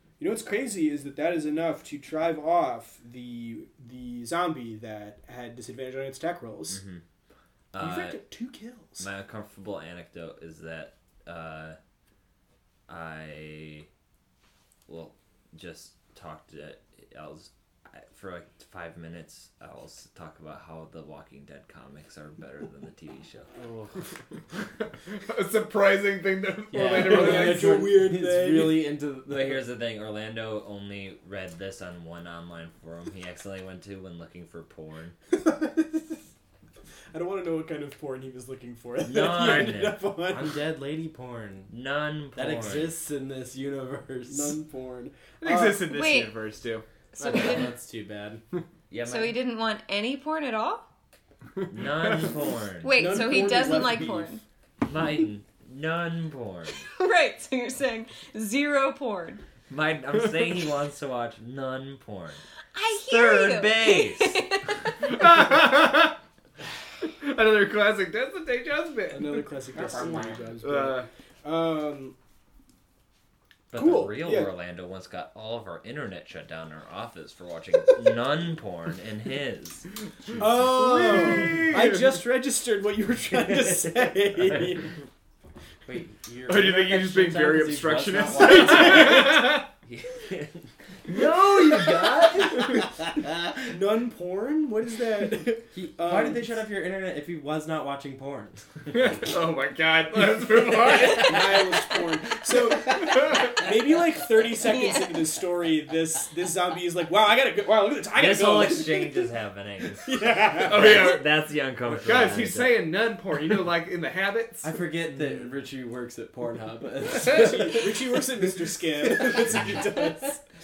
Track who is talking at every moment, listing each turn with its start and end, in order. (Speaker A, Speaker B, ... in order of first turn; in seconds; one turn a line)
Speaker A: 0.2-6.8
Speaker B: 6.7-7.0
Speaker B: 7.7-8.2
Speaker A: 7.8-9.1
Speaker B: 9.0-11.8
Speaker B: 12.9-13.9
Speaker B: 14.9-23.5
Speaker C: 23.6-24.0
Speaker D: 24.8-27.7
Speaker C: 26.7-29.6
Speaker A: 26.9-28.9
Speaker B: 29.3-35.1
Speaker A: 35.3-36.2
Speaker A: 37.1-40.6
Speaker B: 39.0-40.0
Speaker C: 40.3-41.7
Speaker B: 41.7-42.9
Speaker C: 42.3-44.6
Speaker A: 44.3-45.9
Speaker D: 45.4-46.9
Speaker E: 45.9-46.4
Speaker E: 47.1-47.7
Speaker C: 47.2-48.4
Speaker B: 48.9-49.4
Speaker E: 49.0-50.9
Speaker D: 51.6-52.3
Speaker B: 51.7-53.2
Speaker E: 52.8-54.4
Speaker A: 52.9-54.4
Speaker B: 54.9-56.9
Speaker E: 57.0-59.4
Speaker B: 59.7-62.4
Speaker E: 62.7-64.9
Speaker B: 63.1-64.4
Speaker D: 65.0-66.2
Speaker D: 67.0-69.6
Speaker A: 69.1-72.1
Speaker D: 70.6-71.1
Speaker B: 73.7-80.4
Speaker A: 73.7-74.5
Speaker A: 80.4-84.9
Speaker D: 80.6-82.2
Speaker C: 85.9-89.4
Speaker D: 86.5-89.7
Speaker B: 89.9-90.7
Speaker C: 91.1-92.8
Speaker A: 93.7-96.5
Speaker C: 95.7-98.7
Speaker D: 98.9-101.5
Speaker A: 100.9-109.3
Speaker D: 102.8-103.6
Speaker E: 104.6-105.3
Speaker B: 108.1-112.8
Speaker A: 110.0-111.2
Speaker D: 110.6-111.3
Speaker D: 112.0-114.8
Speaker C: 114.6-120.0
Speaker A: 117.2-120.4